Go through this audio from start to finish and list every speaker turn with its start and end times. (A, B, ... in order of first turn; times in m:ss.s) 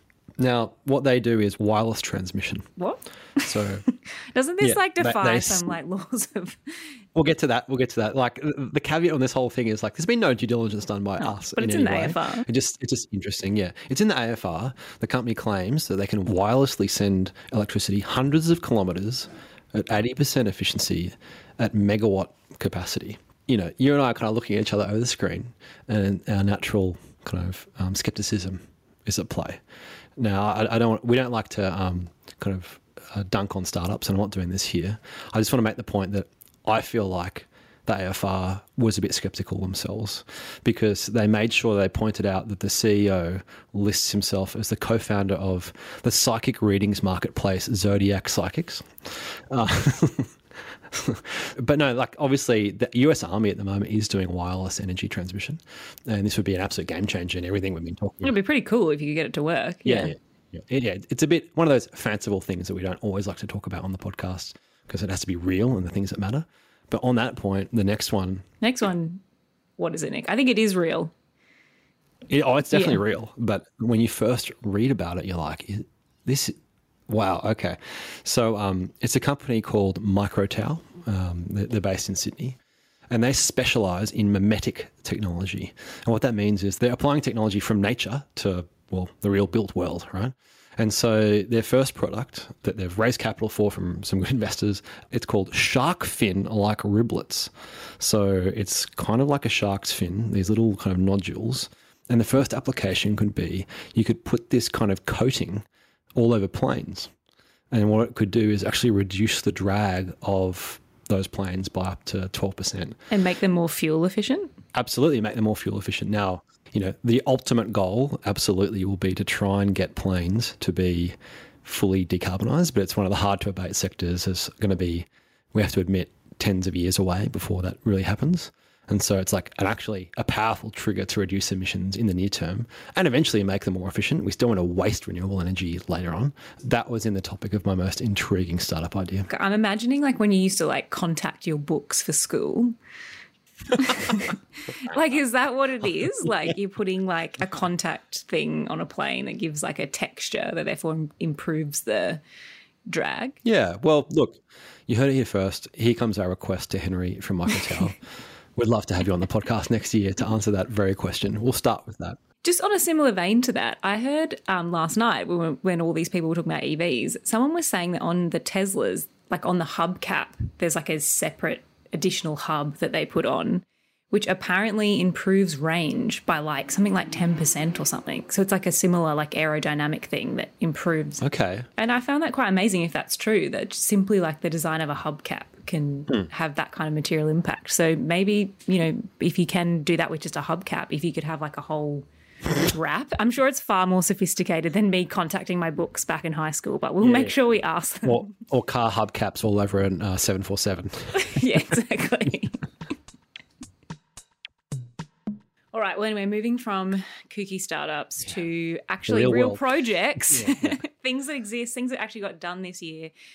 0:00.4-0:02.7 A
0:02.8-0:06.6 B
0:03.4-0:03.8 A
0:04.6-0:05.7 A
0:07.2-0:29.6 A
0:11.2-0:12.5 B
0:30.2-0:50.3 A
0:50.9-0:58.4 A
0:58.2-1:00.2 B
0:59.8-1:08.5 A
1:08.6-1:09.2 B
1:09.8-1:11.1 B
1:12.3-1:16.6 A
1:12.7-1:13.0 B
1:17.1-1:22.6 A
1:23.1-1:45.6 A
1:46.2-1:47.1 A
1:47.7-1:53.0 A
1:53.1-1:54.5 B
1:54.7-2:19.3 A
2:19.3-2:22.8 B
2:23.7-2:32.2 B
2:32.9-2:33.4 B
2:33.4-2:38.0 A
2:38.6-2:42.2 A
2:42.4-3:01.2 B
3:01.2-3:01.7 A
3:01.8-3:12.1 B
3:12.6-3:18.3 B
3:17.0-3:17.4 A
3:18.0-3:21.4 A
3:21.1-3:22.6 B
3:25.7-3:33.1 B
3:29.1-3:29.6 A
3:30.3-3:30.8 A